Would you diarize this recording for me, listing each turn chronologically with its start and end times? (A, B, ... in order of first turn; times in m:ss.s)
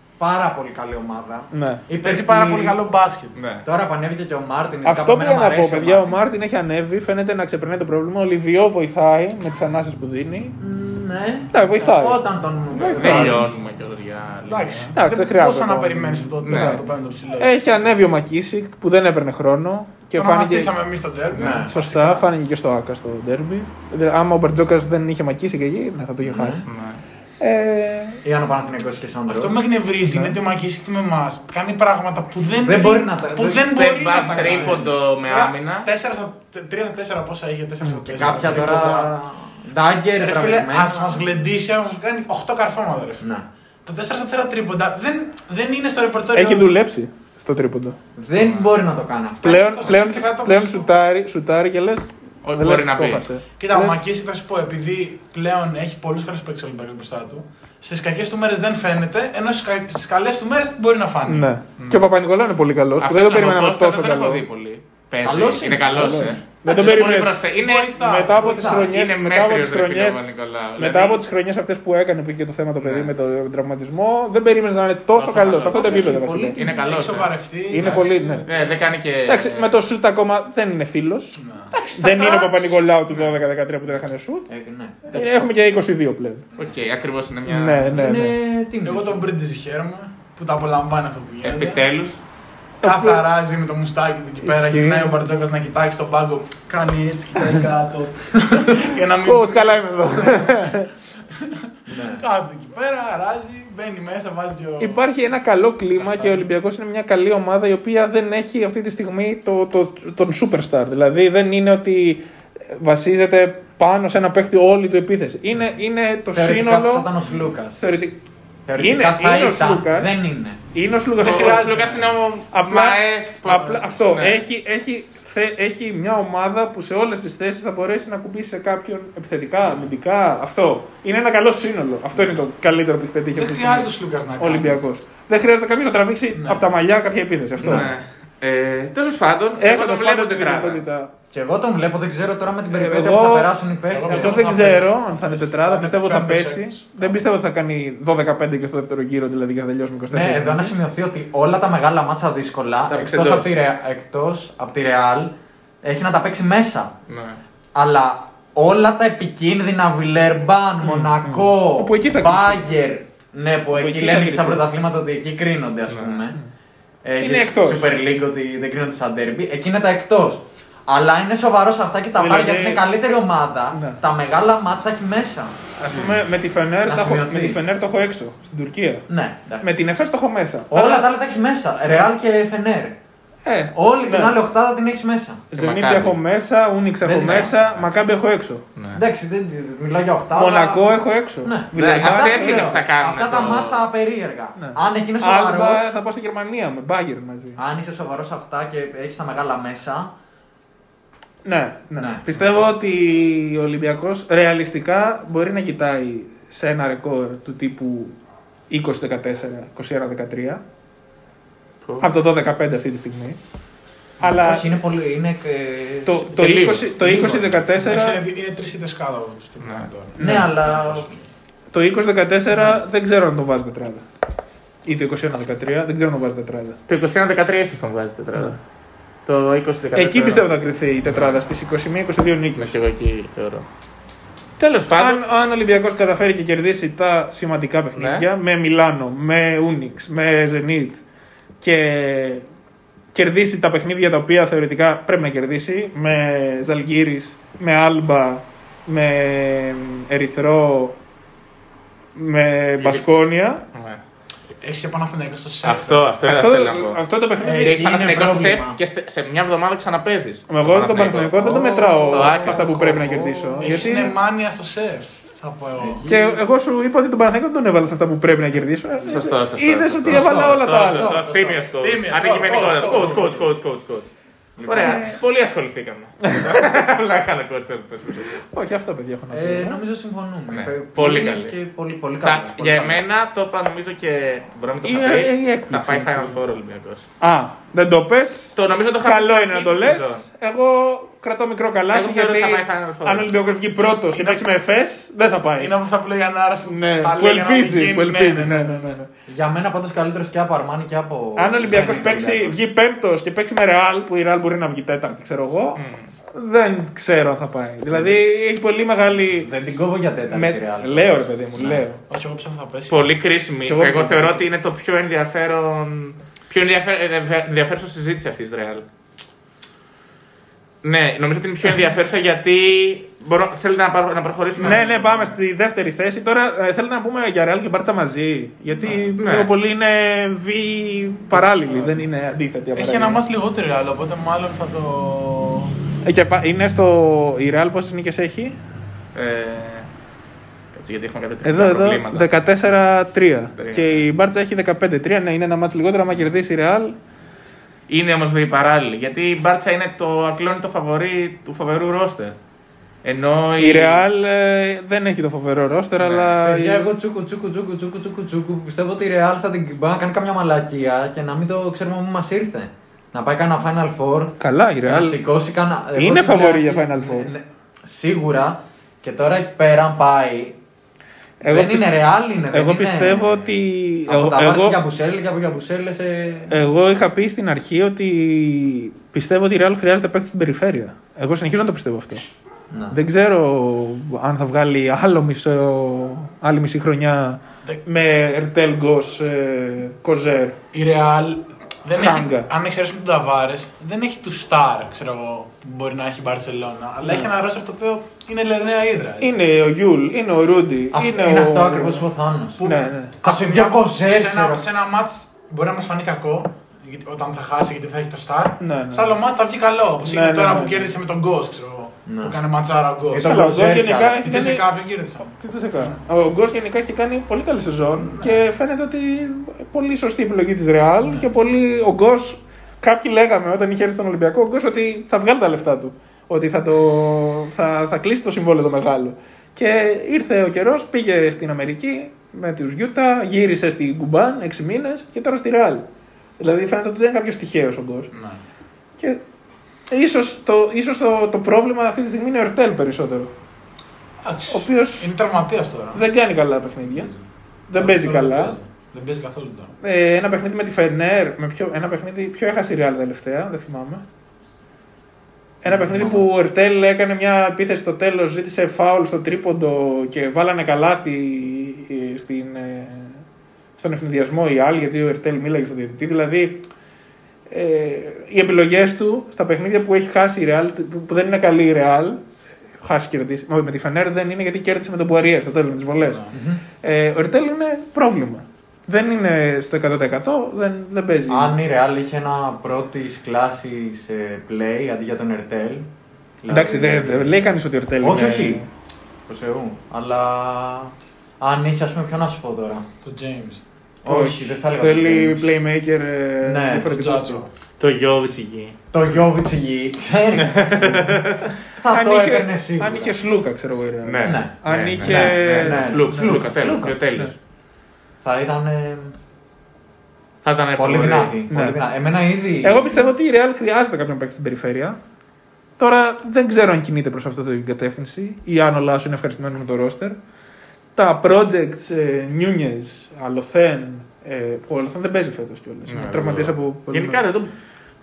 0:00.2-0:02.5 A
0:01.5-0:01.9 B
0:02.0-0:03.4 C
0:03.4-0:03.6 D
0:03.6-0:06.2 A
0:04.8-0:10.6 B
0:10.6-0:13.5 A
0:11.5-0:12.2 B
0:12.7-0:14.9 D
0:12.8-0:13.4 B
0:14.5-0:17.9 C
0:14.9-0:20.7 B
0:16.4-0:16.8 D
0:20.2-0:22.2 C
0:21.3-0:21.8 A
0:21.4-0:26.7 B
0:26.2-0:26.6 A
0:26.7-0:27.0 D
0:27.4-0:28.2 B
0:28.2-0:29.6 A
0:29.3-0:39.1 C
0:30.0-0:30.4 B
0:32.6-0:33.8 A
0:33.7-0:35.9 D
0:34.4-0:34.8 A
0:37.8-0:38.5 B
0:38.1-0:41.2 A
0:40.2-0:43.2 C
0:43.2-0:43.5 A
0:43.8-0:46.8 C
0:46.3-0:48.0 B
0:48.2-0:49.5 A
0:49.4-0:50.9 C
0:49.4-0:54.0 B
0:52.4-0:53.2 D
0:53.6-1:01.5 C
1:01.2-1:04.4 B
1:01.8-1:02.1 D
1:03.0-1:08.0 D
1:05.2-1:06.4 A
1:05.8-1:07.4 B
1:06.7-1:08.5 C
1:08.0-1:10.2 B
1:08.4-1:08.9 A
1:08.9-1:11.2 D
1:10.8-1:16.6 B
1:12.8-1:13.1 D
1:15.3-1:18.6 C
1:15.4-1:17.9 D
1:16.0-1:16.5 A
1:17.7-1:18.5 B
1:18.5-1:19.7 D
1:19.3-1:21.4 B
1:21.4-1:21.7 C
1:21.7-1:23.4 D
1:22.0-1:24.5 B
1:24.5-1:25.5 A
1:25.1-1:26.5 B
1:26.6-1:28.2 D
1:27.5-1:28.4 B
1:28.0-1:29.3 A
1:28.8-1:31.8 C
1:31.4-1:32.2 D
1:32.8-1:33.2 B
1:32.8-1:40.7 C
1:34.4-1:35.2 B
1:39.2-1:40.9 B
1:41.3-1:45.0 C
1:41.9-1:42.2 A
1:44.8-1:57.1 B
1:46.1-1:46.4 A
1:56.3-1:57.8 A
1:57.8-1:58.2 B
1:58.7-2:00.6 A
1:58.8-2:00.2 B
2:00.7-2:01.8 B
2:01.2-2:02.1 C
2:01.2-2:04.4 D
2:02.5-2:18.0 B
2:13.3-2:14.8 C
2:16.4-2:16.7 C
2:17.6-2:20.8 D
2:19.6-2:21.1 B
2:21.3-2:24.6 A
2:22.7-2:23.5 B
2:23.9-2:27.2 C
2:24.1-2:30.8 B
2:30.1-2:36.9 A
2:32.9-2:33.5 D
2:37.1-2:37.4 D
2:37.8-2:46.4 A
2:40.8-2:42.6 B
2:43.7-2:44.6 B
2:45.9-2:46.2 D
2:47.0-2:55.6 A
2:47.2-2:47.9 B
2:52.2-2:52.9 B
2:53.7-2:54.0 B
2:55.8-2:59.1 B
2:55.9-2:56.2 D
2:56.8-2:57.6 A
2:59.1-2:59.8 A
2:59.6-3:01.1 B
3:00.7-3:03.0 A
3:03.4-3:04.4 B
3:03.7-3:05.4 A
3:05.5-3:08.6 B
3:05.5-3:06.2 D
3:07.0-3:07.5 A
3:07.2-3:07.9 D
3:08.8-3:09.0 D
3:08.9-3:15.9 A
3:10.3-3:12.8 B
3:11.8-3:13.8 D
3:14.6-3:17.6 B
3:17.6-3:20.1 A
3:21.4-3:28.2 B
3:22.0-3:22.3 A
3:28.7-3:30.6 B
3:32.0-3:33.4 B
3:34.2-3:34.8 B
3:34.2-3:36.4 A
3:36.0-3:38.2 B
3:36.4-3:37.5 D
3:37.8-3:41.2 C
3:39.6-3:39.9 D
3:40.2-3:40.5 B
3:40.2-3:41.1 A
3:41.7-3:44.0 B
3:42.5-3:42.8 A
3:44.8-3:46.8 B
3:46.9-3:48.6 D
3:49.3-3:50.5 D
3:49.9-3:52.7 B
3:51.0-3:51.4 D
3:52.6-3:53.7 D
3:54.6-3:55.2 D
3:55.0-4:01.0 B
3:58.0-3:58.3 D
4:01.6-4:02.4 B
4:03.1-4:11.0 B
4:12.2-4:13.6 B
4:12.8-4:13.0 D
4:13.7-4:14.0 D
4:14.6-4:16.2 C
4:15.6-4:17.0 D
4:16.2-4:18.3 B
4:17.4-4:18.8 A
4:17.6-4:22.8 D
4:20.5-4:24.2 B
4:21.4-4:24.0 A
4:23.6-4:26.1 C
4:25.8-4:26.4 A
4:26.1-4:31.2 B
4:29.0-4:34.1 D
4:30.1-4:31.6 A
4:31.8-4:33.5 C
4:34.6-4:35.2 A
4:34.6-4:38.4 D
4:34.8-4:35.2 B
4:36.2-4:36.8 B
4:38.2-4:39.8 B
4:39.3-4:43.0 A
4:40.5-4:41.6 D
4:42.2-4:47.1 D
4:44.8-4:46.4 B
4:47.2-4:55.8 B
4:48.6-4:50.2 D
4:51.9-4:53.3 D
4:53.8-4:54.4 C
4:55.6-4:58.7 C
4:56.7-4:59.1 B
4:59.3-5:02.6 A
5:01.4-5:05.8 B
5:05.8-5:06.1 D
5:06.3-5:09.5 B
5:09.4-5:11.8 A
5:10.3-5:12.0 B
5:12.1-5:13.1 C
5:12.9-5:18.8 D
5:13.7-5:14.4 B
5:20.8-5:25.3 D
5:24.6-5:24.8 C
5:24.6-5:33.2 B
5:29.2-5:29.5 D
5:31.4-5:32.0 C
5:32.7-5:35.7 C
5:36.0-5:38.6 B
5:39.2-5:39.9 D
5:40.7-5:42.3 D
5:41.4-5:47.0 B
5:43.6-5:44.0 D
5:47.9-5:52.4 D
5:53.0-5:54.0 D
5:53.6-5:56.9 B
5:56.0-5:56.3 D
5:56.4-6:10.6 A
6:04.4-6:05.2 B
6:05.9-6:07.3 B
6:11.4-6:14.8 B
6:11.4-6:16.6 A
6:16.5-6:22.2 B
6:22.7-6:23.0 A
6:22.9-6:30.6 B
6:30.7-6:39.4 C
6:32.0-6:32.5 B
6:39.2-6:42.1 B
6:40.9-6:42.6 A
6:42.6-6:53.3 C
6:42.6-6:43.2 B
6:43.2-6:44.7 A
6:48.6-6:49.2 B
6:50.0-6:50.9 B
6:52.1-6:52.4 A
6:53.1-6:54.3 A
6:53.2-6:54.7 B
6:54.2-6:56.0 C
6:55.2-7:15.9 B
6:57.9-6:58.4 C
7:16.4-7:18.1 B
7:18.1-7:18.4 C
7:19.9-7:23.3 B
7:24.2-7:26.0 C
7:24.5-7:25.1 B
7:25.9-7:27.1 B
7:26.9-7:27.2 C
7:27.7-7:28.6 B
7:27.7-7:29.7 C
7:29.8-7:34.0 B
7:35.6-7:43.2 B
7:35.7-7:36.3 A
7:43.8-7:46.6 B
7:47.5-7:52.2 B
7:52.8-7:56.3 B
7:56.0-7:56.3 C
7:56.3-7:56.6 A
7:56.8-8:01.6 B
8:01.3-8:05.9 A
8:06.4-8:07.4 A
8:06.5-8:08.6 B
8:08.0-8:08.6 A
8:09.3-8:12.9 A
8:13.0-8:13.6 C
8:14.0-8:15.5 A
8:14.1-8:17.4 B
8:16.4-8:16.9 A
8:16.8-8:17.5 C
8:17.8-8:18.8 D
8:18.9-8:21.2 A
8:20.3-8:21.5 D
8:21.8-8:23.2 A
8:21.8-8:26.4 B
8:24.0-8:27.4 D
8:24.2-8:27.0 A
8:28.2-8:29.2 A
8:30.4-8:31.4 D
8:30.8-8:33.1 A
8:31.5-8:31.8 B
8:32.6-8:35.0 B
8:35.8-8:40.2 B
8:41.0-8:47.3 B
8:45.9-8:47.5 D